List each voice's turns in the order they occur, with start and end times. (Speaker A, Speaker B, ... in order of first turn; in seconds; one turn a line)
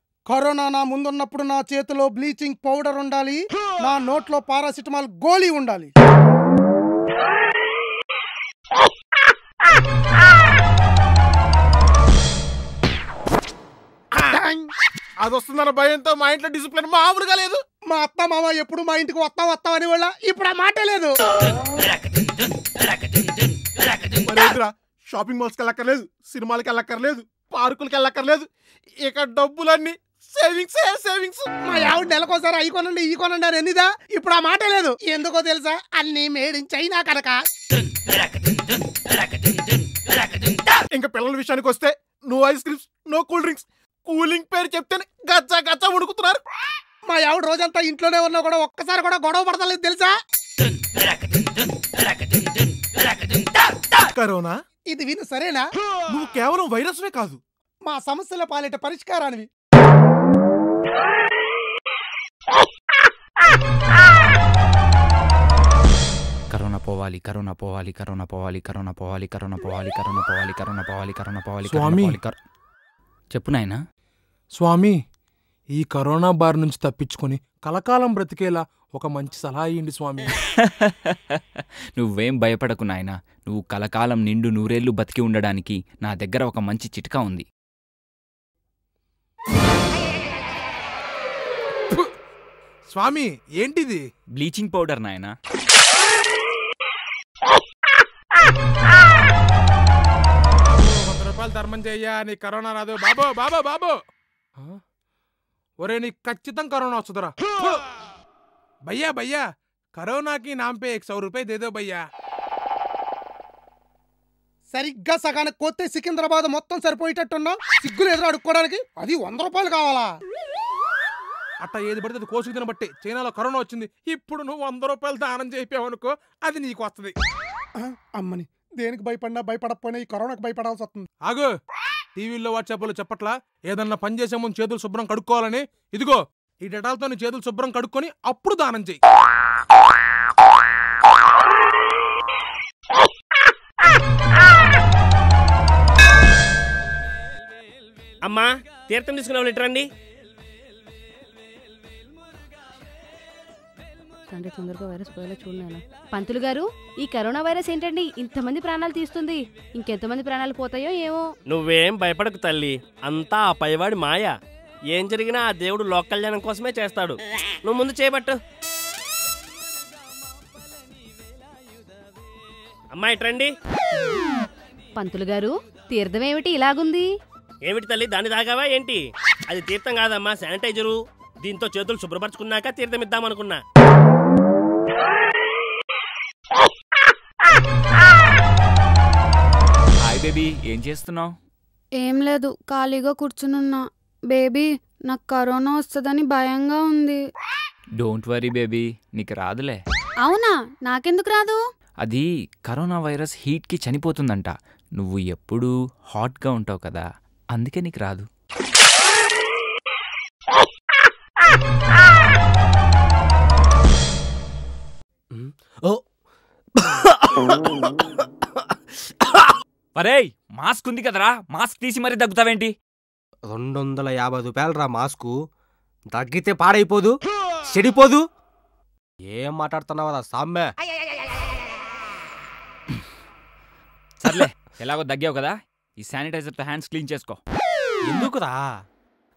Speaker A: 0.3-5.9
Speaker A: 14.3-14.7
Speaker B: 15.2-17.6
Speaker A: 17.9-21.1
Speaker B: 24.2-28.5
Speaker B: 29.1-31.5
Speaker A: 31.6-37.4
Speaker B: 40.9-46.4
Speaker A: 47.1-50.1
Speaker B: 54.1-54.6
Speaker A: 54.9-55.7
Speaker B: 56.1-57.4
Speaker A: 57.9-59.5
Speaker C: 66.5-72.4
Speaker D: 71.7-72.2
Speaker C: 73.3-73.8
Speaker D: 74.6-74.9
Speaker D: 75.8-80.3
Speaker C: 80.6-81.4
Speaker C: 82.0-87.5
Speaker D: 92.9-94.0
Speaker C: 94.4-95.3
Speaker D: 100.7-104.0
Speaker D: 105.8-107.8
Speaker D: 108.9-109.4
Speaker D: 110.0-112.0
Speaker A: 114.7-120.1
Speaker D: 121.6-127.1
Speaker A: 127.8-131.1
Speaker D: 131.3-131.5
Speaker D: 132.2-139.0
Speaker E: 148.3-149.9
Speaker F: 154.3-161.3
Speaker E: 161.5-164.3
Speaker E: 164.9-168.4
Speaker E: 173.0-173.5
Speaker F: 175.0-177.1
Speaker E: 177.7-183.6
Speaker C: 190.1-191.3
Speaker G: 192.0-197.2
Speaker C: 198.0-199.8
Speaker G: 200.2-201.6
Speaker C: 202.0-208.2
Speaker H: 215.3-216.0
Speaker H: 216.8-219.6
Speaker C: 220.0-222.7
Speaker H: 223.5-225.3
Speaker H: 226.1-227.1
Speaker H: 227.7-228.2
Speaker H: 229.3-230.7
Speaker C: 234.2-237.4
Speaker H: 238.1-238.6